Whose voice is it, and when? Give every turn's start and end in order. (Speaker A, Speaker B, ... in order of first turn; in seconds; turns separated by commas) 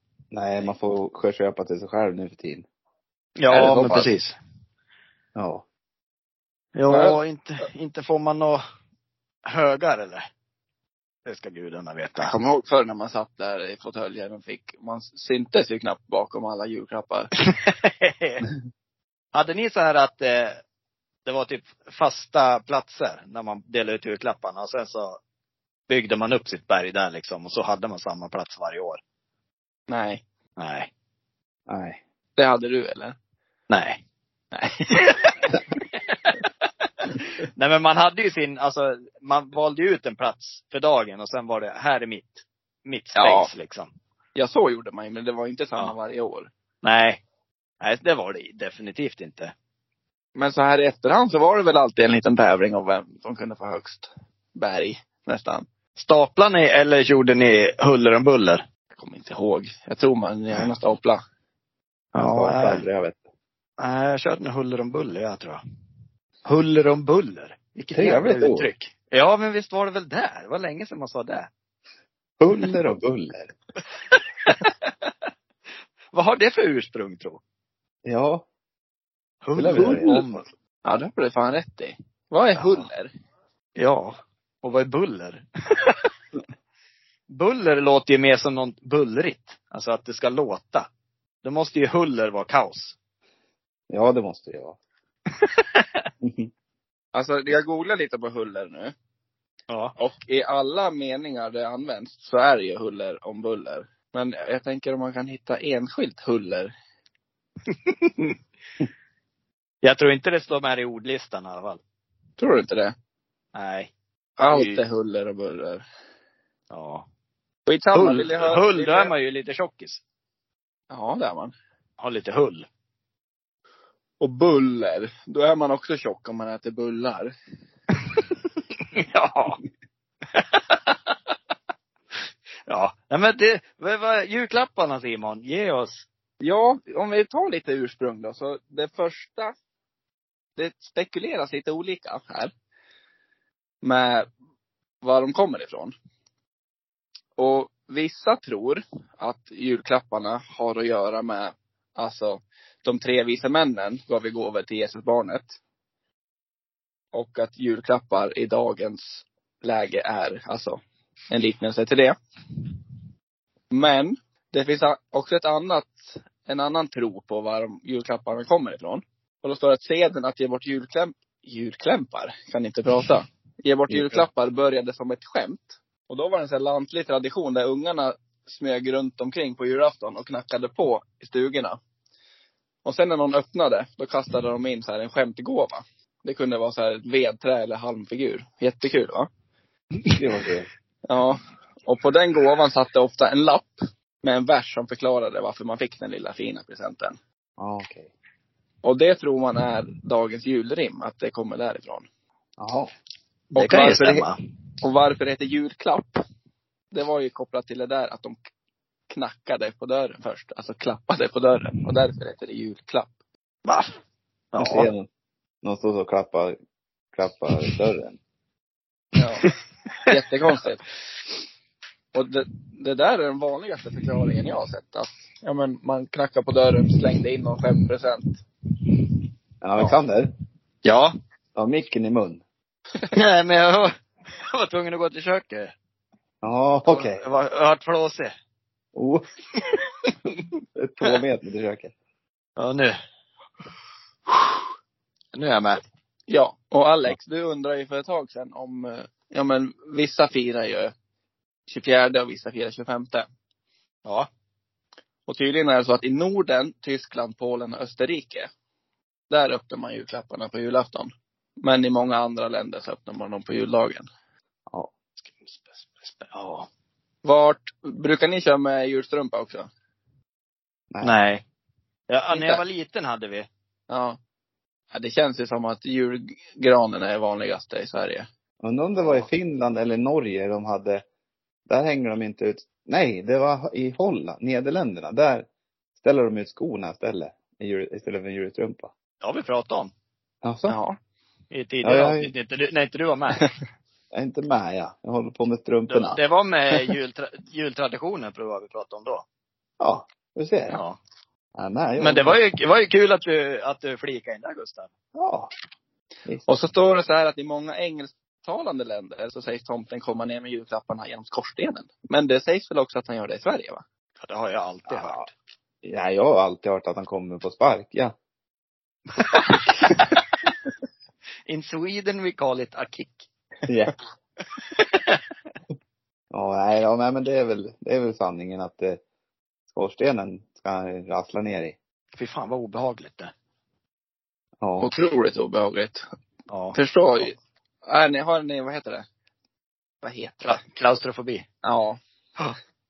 Speaker A: 0.3-2.6, Speaker B: 3.4-4.4, Speaker A: 3.5-4.1, Speaker C: 3.6-4.0, Speaker A: 5.3-5.6, Speaker B: 6.8-8.6, Speaker C: 6.9-7.2, Speaker B: 9.5-10.2, Speaker B: 11.2-12.3, Speaker C: 12.2-17.3, Speaker B: 17.4-18.5, Speaker B: 19.3-20.6, Speaker B: 21.2-25.2, Speaker B: 25.9-29.0, Speaker C: 29.9-30.2, Speaker B: 30.6-30.9, Speaker A: 31.7-32.0, Speaker C: 32.4-33.2, Speaker B: 33.7-34.0, Speaker C: 34.5-35.2, Speaker B: 37.0-43.9, Speaker C: 43.1-43.5, Speaker C: 44.4-46.5, Speaker B: 46.8-47.2, Speaker B: 47.8-49.5, Speaker C: 50.4-55.7, Speaker B: 56.0-58.6, Speaker C: 59.0-61.2, Speaker B: 62.1-62.8, Speaker A: 62.2-63.2, Speaker B: 63.8-65.6, Speaker B: 66.5-71.5, Speaker A: 67.9-68.7, Speaker A: 72.4-73.5, Speaker B: 74.1-74.9, Speaker B: 76.1-77.4, Speaker A: 78.1-78.5, Speaker B: 79.4-80.5, Speaker A: 79.5-80.2, Speaker C: 79.8-80.2, Speaker C: 80.8-83.1, Speaker B: 83.8-86.1, Speaker B: 87.3-90.9, Speaker B: 91.4-93.0, Speaker A: 93.9-94.8, Speaker B: 95.3-96.0, Speaker A: 96.2-96.5, Speaker C: 97.1-98.9, Speaker B: 99.7-100.0, Speaker C: 100.0-106.7, Speaker B: 107.7-108.4, Speaker B: 109.8-111.8, Speaker C: 112.4-112.9, Speaker B: 113.5-113.9, Speaker C: 114.4-115.8, Speaker B: 114.5-114.8, Speaker B: 116.7-117.1, Speaker C: 117.7-119.1, Speaker B: 117.9-120.0, Speaker C: 120.9-121.5, Speaker B: 122.0-122.7, Speaker C: 124.2-127.3, Speaker B: 128.9-129.6, Speaker B: 130.3-130.8, Speaker B: 132.7-136.1, Speaker C: 136.4-139.5, Speaker C: 140.6-142.5, Speaker C: 143.8-144.3, Speaker C: 145.0-145.9, Speaker C: 147.4-155.6, Speaker C: 157.1-160.8, Speaker C: 161.3-162.2, Speaker C: 163.7-181.8, Speaker A: 173.9-174.3, Speaker C: 182.8-189.3, Speaker A: 190.1-190.7, Speaker C: 191.1-197.2, Speaker A: 197.6-198.1, Speaker C: 198.8-202.1, Speaker A: 202.6-202.9, Speaker C: 203.6-204.2, Speaker B: 203.6-204.4, Speaker C: 204.8-206.2, Speaker C: 206.9-208.4, Speaker C: 209.1-213.1, Speaker B: 213.7-213.9, Speaker B: 214.5-214.9, Speaker A: 214.6-215.1, Speaker A: 215.6-216.6, Speaker A: 217.1-218.2, Speaker C: 219.2-219.5, Speaker C: 220.1-220.8, Speaker C: 222.1-228.4, Speaker A: 229.6-230.3, Speaker B: 230.8-231.1, Speaker A: 231.6-232.4, Speaker B: 233.1-235.7, Speaker A: 236.4-237.2, Speaker B: 236.9-238.3, Speaker A: 238.9-239.2, Speaker A: 240.8-241.9, Speaker B: 242.6-243.0, Speaker B: 244.3-244.6, Speaker B: 245.3-245.8, Speaker C: 246.3-250.9, Speaker C: 251.7-253.3, Speaker C: 255.3-258.5, Speaker C: 259.3-261.1, Speaker C: 261.6-264.1, Speaker B: 265.5-266.7, Speaker C: 267.2-269.7, Speaker A: 270.9-271.2, Speaker B: 271.0-271.4, Speaker B: 272.1-273.5, Speaker C: 272.3-272.6, Speaker C: 273.9-274.2, Speaker C: 274.9-278.3, Speaker A: 278.6-281.0, Speaker A: 281.7-285.5, Speaker A: 286.0-288.9, Speaker B: 289.2-289.9, Speaker A: 290.4-290.8, Speaker C: 290.7-291.0, Speaker B: 291.5-293.5, Speaker A: 291.8-292.3, Speaker A: 294.1-296.2, Speaker B: 295.9-299.2, Speaker A: 299.8-300.8, Speaker B: 300.7-301.0, Speaker A: 301.6-302.4, Speaker B: 302.0-304.9, Speaker A: 305.1-305.5, Speaker C: 306.5-313.8, Speaker B: 314.2-315.3, Speaker A: 314.9-315.3, Speaker A: 315.8-318.1, Speaker B: 319.3-320.0, Speaker B: 321.5-323.3, Speaker A: 323.7-323.9, Speaker B: 324.8-325.2, Speaker A: 326.3-329.0, Speaker A: 329.7-331.8, Speaker B: 332.1-333.3, Speaker A: 334.6-334.9, Speaker C: 334.8-336.0, Speaker B: 336.5-336.8, Speaker C: 336.8-339.1, Speaker C: 340.0-340.6, Speaker B: 340.4-341.4, Speaker C: 341.6-342.0